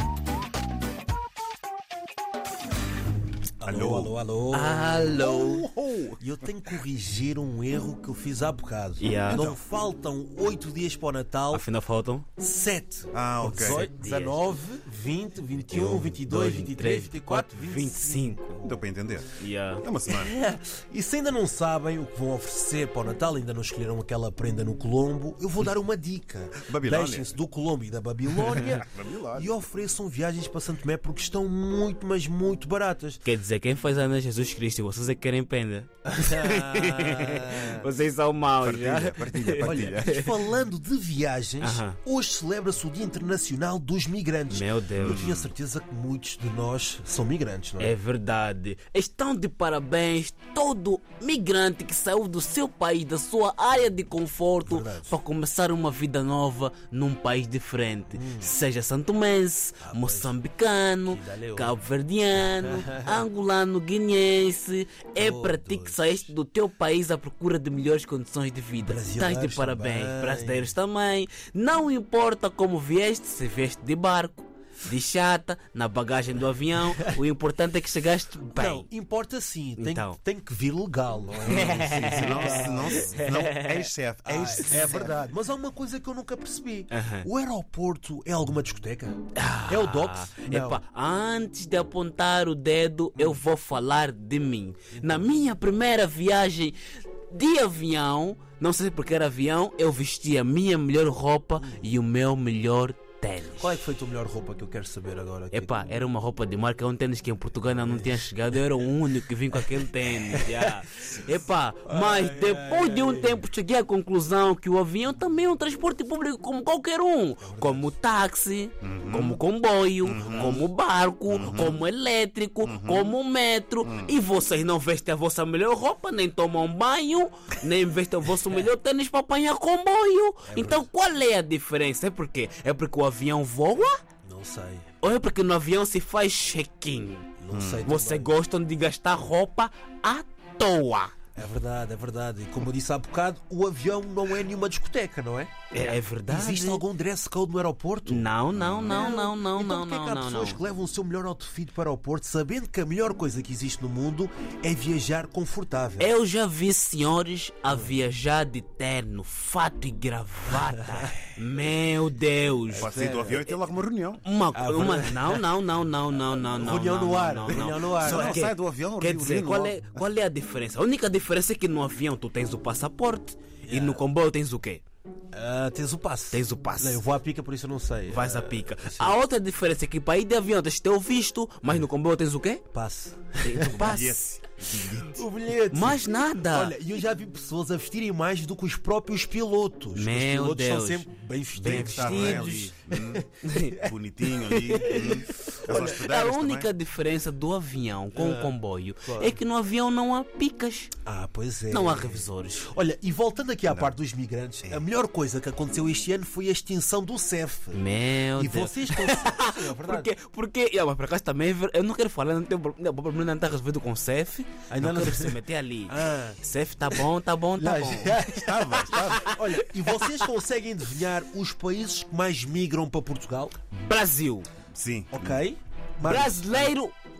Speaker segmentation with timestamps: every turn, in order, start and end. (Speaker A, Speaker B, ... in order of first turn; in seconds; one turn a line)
Speaker A: 3.6-5.1
Speaker B: 3.6-4.2
Speaker C: 4.5-5.7
Speaker B: 5.2-6.2
Speaker A: 6.1-11.7
Speaker C: 9.0-9.5
Speaker B: 9.3-9.6
Speaker C: 11.5-12.3
Speaker A: 12.4-18.9
Speaker B: 13.1-13.9
Speaker C: 13.6-14.6
Speaker C: 15.7-18.6
Speaker B: 18.6-20.4
Speaker C: 19.4-19.8
Speaker A: 20.1-33.2
Speaker B: 26.6-27.4
Speaker B: 28.4-29.6
Speaker C: 33.2-40.4
Speaker A: 36.1-37.9
Speaker B: 38.6-40.2
Speaker A: 39.5-48.0
Speaker C: 41.6-42.0
Speaker C: 44.5-45.2
Speaker B: 45.0-45.5
Speaker C: 47.8-78.9
Speaker A: 54.6-55.2
Speaker A: 58.1-58.5
Speaker A: 59.8-60.4
Speaker A: 61.1-61.7
Speaker A: 62.6-63.2
Speaker A: 65.2-66.2
Speaker A: 68.8-70.7
Speaker A: 78.5-83.3
Speaker C: 79.8-80.2
Speaker C: 81.5-83.9
Speaker B: 81.5-85.2
Speaker A: 84.2-90.8
Speaker C: 86.9-87.3
Speaker C: 89.4-96.8
Speaker A: 94.9-95.5
Speaker C: 97.3-103.8
Speaker A: 101.6-101.9
Speaker A: 103.6-105.8
Speaker C: 105.5-134.0
Speaker A: 107.8-108.2
Speaker A: 109.9-110.8
Speaker A: 111.9-113.4
Speaker A: 117.4-117.9
Speaker B: 118.8-119.4
Speaker B: 120.0-120.7
Speaker A: 120.1-120.6
Speaker B: 121.3-121.8
Speaker B: 122.6-123.2
Speaker B: 123.8-124.1
Speaker A: 130.5-130.9
Speaker A: 134.2-134.9
Speaker C: 135.0-137.3
Speaker A: 137.4-138.4
Speaker B: 137.5-137.9
Speaker C: 137.8-141.1
Speaker A: 141.4-156.1
Speaker C: 145.7-146.8
Speaker C: 148.1-150.6
Speaker B: 148.6-148.9
Speaker C: 156.0-163.1
Speaker A: 162.7-163.5
Speaker B: 162.7-164.2
Speaker C: 164.2-174.8
Speaker A: 164.5-165.5
Speaker A: 166.3-168.4
Speaker B: 167.5-169.8
Speaker A: 173.7-174.1
Speaker A: 175.3-179.2
Speaker C: 176.3-177.0
Speaker C: 178.1-182.6
Speaker A: 182.7-184.1
Speaker C: 183.4-184.2
Speaker B: 183.8-185.2
Speaker A: 185.0-196.0
Speaker C: 185.7-186.7
Speaker C: 189.9-192.7
Speaker B: 191.6-196.7
Speaker C: 193.4-193.8
Speaker C: 194.4-200.9
Speaker A: 198.1-198.5
Speaker A: 199.1-199.4
Speaker A: 201.0-210.2
Speaker C: 201.7-202.7
Speaker B: 203.7-203.9
Speaker C: 207.7-220.3
Speaker A: 214.7-216.4
Speaker A: 217.6-223.5
Speaker B: 218.3-219.3
Speaker C: 223.7-224.5
Speaker B: 224.7-225.4
Speaker A: 225.1-226.8
Speaker C: 226.0-226.9